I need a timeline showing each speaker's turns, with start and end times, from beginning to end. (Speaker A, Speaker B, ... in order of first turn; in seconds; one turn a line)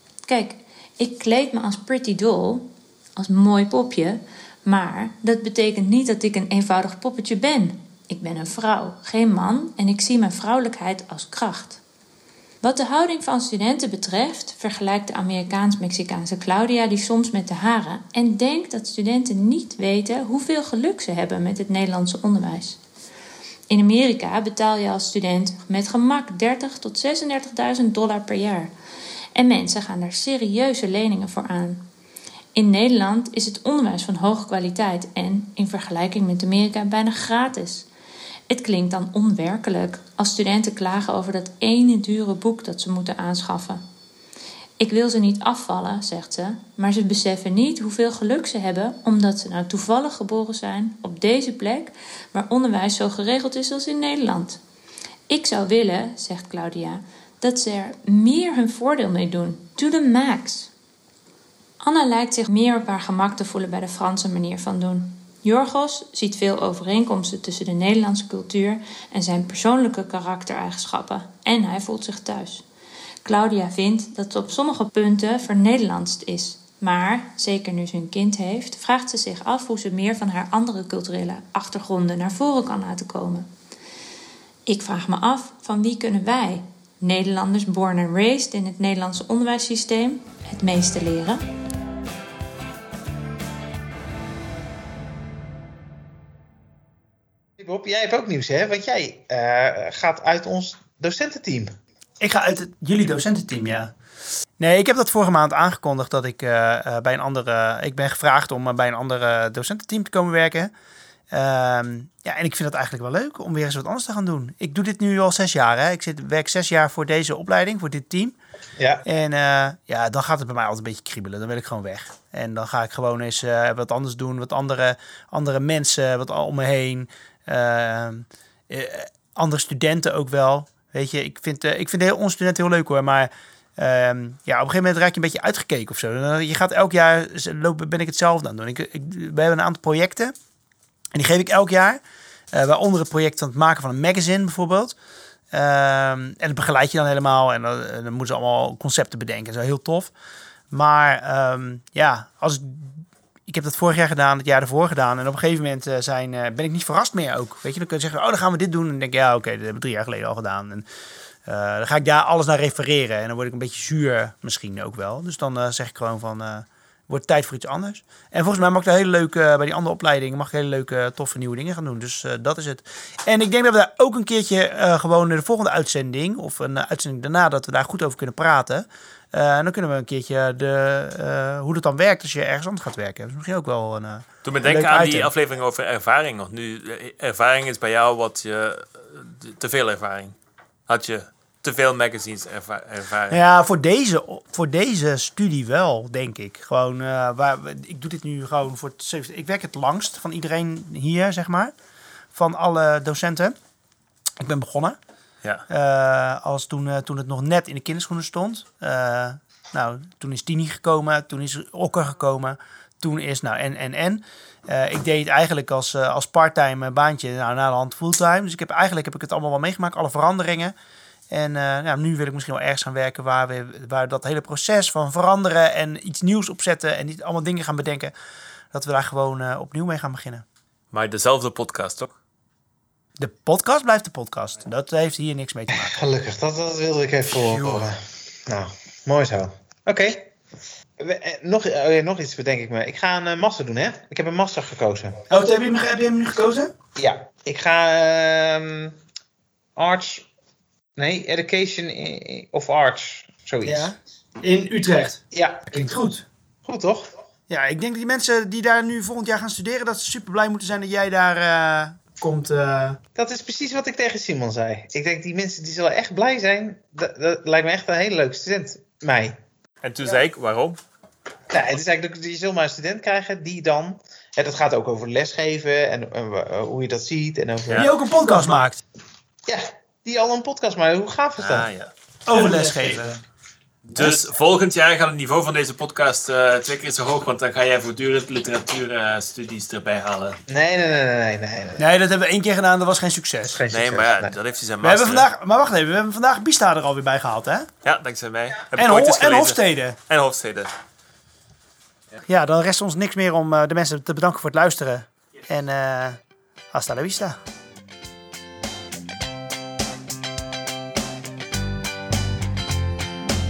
Speaker A: 0.2-11.8
Speaker A: 12.6-22.8
Speaker A: 23.7-28.7
Speaker A: 29.3-31.8
Speaker A: 32.5-37.9
Speaker A: 38.5-43.8
Speaker A: 44.8-54.6
Speaker A: 55.3-60.7
Speaker A: 61.8-72.6
Speaker A: 73.2-83.5
Speaker A: 84.7-91.4
Speaker B: 97.6-101.7
Speaker C: 102.2-103.9
Speaker C: 104.6-110.7
Speaker C: 111.3-118.3
Speaker B: 118.8-119.0
Speaker C: 119.0-140.3
Speaker C: 141.1-142.0
Speaker C: 142.5-144.9
Speaker C: 145.5-150.1
Speaker C: 150.7-160.8
Speaker C: 161.4-185.3
Speaker D: 184.4-190.3
Speaker D: 190.9-193.4
Speaker C: 193.3-201.7
Speaker C: 202.3-203.5
Speaker C: 204.4-205.0
Speaker C: 205.7-220.7
Speaker C: 221.3-228.1
Speaker C: 228.7-230.4
Speaker D: 230.9-232.1
Speaker C: 233.2-236.0
Speaker B: 235.7-240.3
Speaker C: 237.3-237.8
Speaker B: 241.0-245.2
Speaker C: 245.3-246.7
Speaker B: 246.9-249.0
Speaker B: 249.8-250.3
Speaker B: 251.0-253.9
Speaker C: 253.6-256.2
Speaker B: 255.3-255.9
Speaker B: 256.6-257.1
Speaker C: 257.5-263.0
Speaker B: 263.1-269.4
Speaker D: 269.8-270.8
Speaker B: 271.5-277.9
Speaker C: 277.8-278.8
Speaker B: 279.5-281.7
Speaker D: 281.4-281.9
Speaker C: 282.2-283.1
Speaker B: 282.3-283.0
Speaker D: 283.9-290.4
Speaker B: 290.5-291.8
Speaker C: 291.8-293.6
Speaker B: 293.5-294.4
Speaker D: 293.7-295.3
Speaker C: 294.8-297.7
Speaker D: 297.8-300.7
Speaker C: 298.8-300.0
Speaker C: 302.2-306.2
Speaker C: 306.7-307.4